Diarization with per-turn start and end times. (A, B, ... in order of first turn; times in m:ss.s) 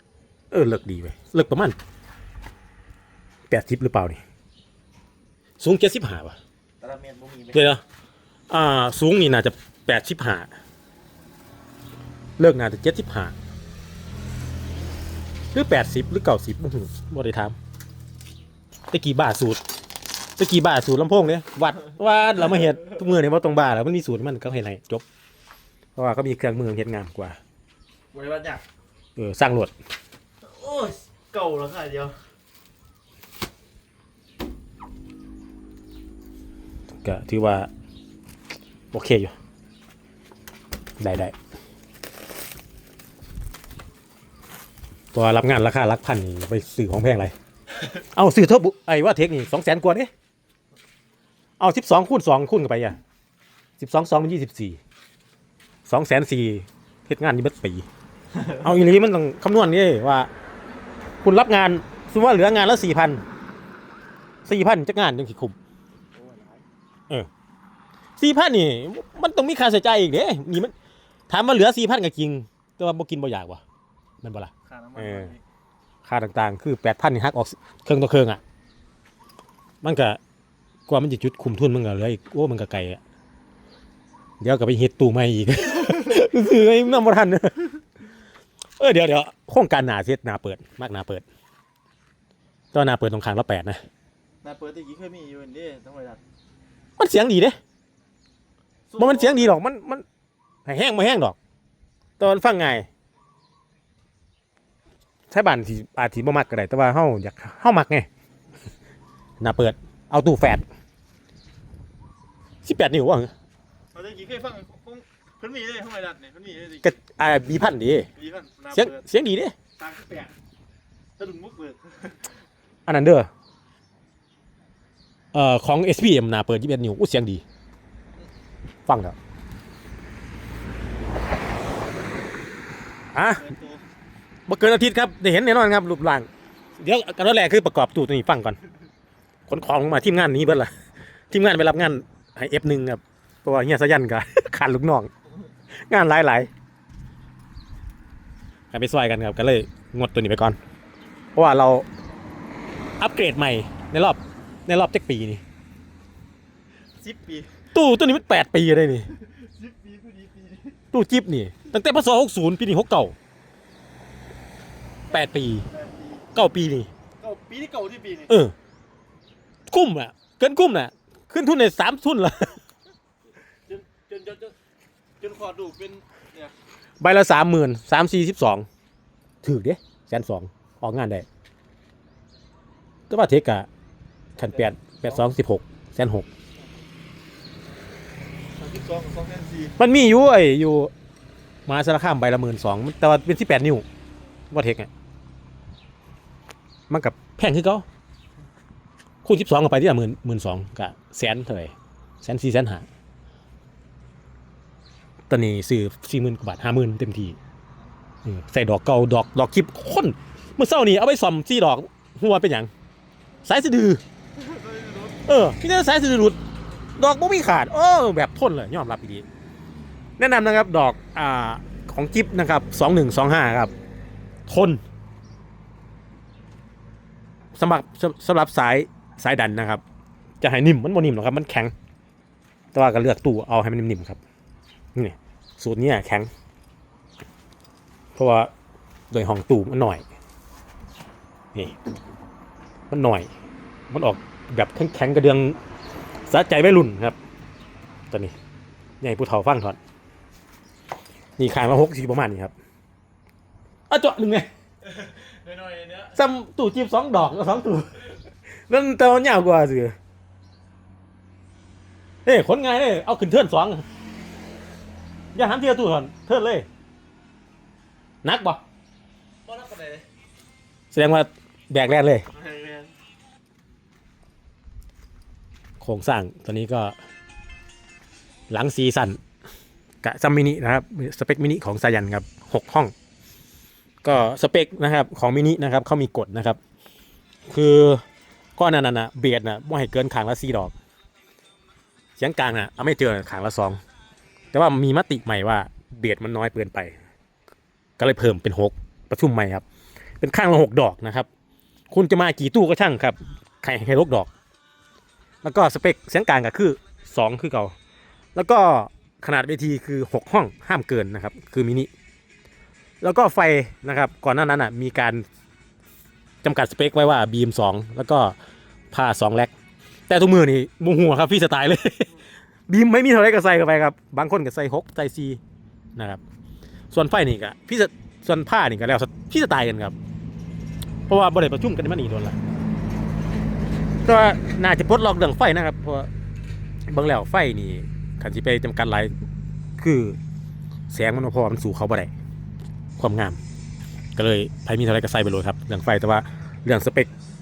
0:00.5-0:01.8 A
0:03.5-0:04.2 A
0:05.6-0:06.4 A
0:06.8-0:07.6 B
0:07.5-0:07.8 A
0:08.5-0:10.5 A
0:12.4-0:13.4 A
0:15.5-0:17.6 A
0:18.9-0:19.6 A
0:20.4-0:25.0 A
0:26.0-0:27.4 A
0:28.1-0:28.6 B
0:29.2-0:29.7 A
0:30.4-0:32.2 B
0:37.0-0:37.7 A
0:38.9-0:39.3 A
0:41.0-0:41.4 A
0:45.1-0:47.3 A
0:48.1-0:50.1 A
0:51.6-0:53.0 A
0:53.8-0:54.8 A
0:55.9-0:57.9 A
0:58.6-1:00.3 A
1:01.2-1:03.2 A
1:04.5-1:05.6 A
1:06.1-1:06.6 B
1:08.2-1:10.7 A
1:11.3-1:13.6 A
1:14.2-1:15.4 A
1:14.7-1:15.4 B
1:16.0-1:18.4 A
1:19.8-1:20.2 A
1:20.9-1:23.0 A
1:24.4-1:27.8 A
1:28.8-1:31.2 A
1:32.7-1:33.8 A
1:34.4-1:36.2 B
1:37.0-1:37.6 A
1:38.9-1:39.6 B
1:39.0-1:40.0 A
1:40.7-1:41.4 A
1:42.2-1:42.9 A
1:45.3-1:48.1 A
1:49.4-1:50.6 A
1:52.6-1:53.3 A
1:53.9-1:56.9 B
1:56.8-1:58.1 A
1:58.2-1:59.0 B
1:58.7-1:59.5 A
1:59.8-2:00.3 B
2:01.2-2:02.3 B
2:02.9-2:03.3 A
2:05.3-2:07.4 A
2:08.9-2:09.2 A
2:13.1-2:13.4 A
2:13.4-2:13.8 B
2:14.5-2:18.6 A
2:19.5-2:20.7 A
2:21.3-2:25.1 A
2:25.9-2:26.5 A
2:28.7-2:30.6 A
2:31.4-2:31.9 A
2:33.0-2:35.4 A
2:37.0-2:37.5 B
2:37.7-2:39.1 A
2:39.1-2:40.8 B
2:40.9-2:43.2 A
2:45.1-2:45.6 A
2:45.7-2:46.3 B
2:46.4-2:46.9 A
2:47.2-2:48.3 B
2:48.3-2:48.5 A
2:49.7-2:52.6 A
2:53.7-2:54.6 B
2:55.2-2:56.5 B
2:57.0-2:58.7 A
2:59.4-3:01.3 A
3:03.1-3:03.7 A
3:04.4-3:06.3 A
3:04.4-3:05.2 B
3:08.5-3:09.8 B
3:09.8-3:10.9 A
3:11.7-3:13.8 A
3:14.5-3:14.9 A
3:16.9-3:17.8 A
3:19.2-3:22.9 A
3:25.3-3:27.4 A
3:28.2-3:32.7 A
3:33.4-3:34.0 A
3:34.4-3:35.2 B
3:35.3-3:36.4 A
3:37.0-3:39.3 A
3:40.2-3:43.7 A
3:44.5-3:44.8 A
3:47.6-3:49.8 A
3:50.4-3:51.7 A
3:52.7-3:54.2 A
3:55.0-3:56.3 A
3:58.2-3:58.5 A
3:59.1-4:00.0 A
4:02.9-4:03.3 A
4:03.9-4:05.6 A
4:06.3-4:07.2 A
4:09.0-4:09.8 A
4:11.4-4:12.5 A
4:13.9-4:14.5 A
4:14.9-4:16.1 B
4:16.1-4:20.0 A
4:22.2-4:23.8 A
4:25.4-4:26.7 A
4:28.2-4:28.6 A
4:29.5-4:30.0 B
4:30.9-4:32.2 A
4:32.3-4:32.9 B
4:35.8-4:37.0 A
4:38.5-4:39.2 A
4:40.0-4:42.9 A
4:44.0-4:46.6 A
4:47.5-4:48.0 A
4:48.6-4:50.7 A
4:52.2-4:53.8 A
4:54.5-4:57.0 A
4:58.0-4:59.6 A
5:00.2-5:01.3 A
5:01.9-5:04.3 A
5:05.4-5:07.7 A
5:08.4-5:11.9 A
5:13.0-5:15.2 A
5:16.4-5:18.4 A
5:18.9-5:19.5 A
5:20.1-5:22.2 A
5:22.7-5:25.4 A
5:26.0-5:26.2 A
5:26.9-5:30.0 A
5:31.1-5:32.4 A
5:34.0-5:36.1 A
5:36.9-5:39.1 A
5:39.8-5:40.2 A
5:40.9-5:42.1 A
5:43.0-5:43.4 A
5:44.2-5:47.1 A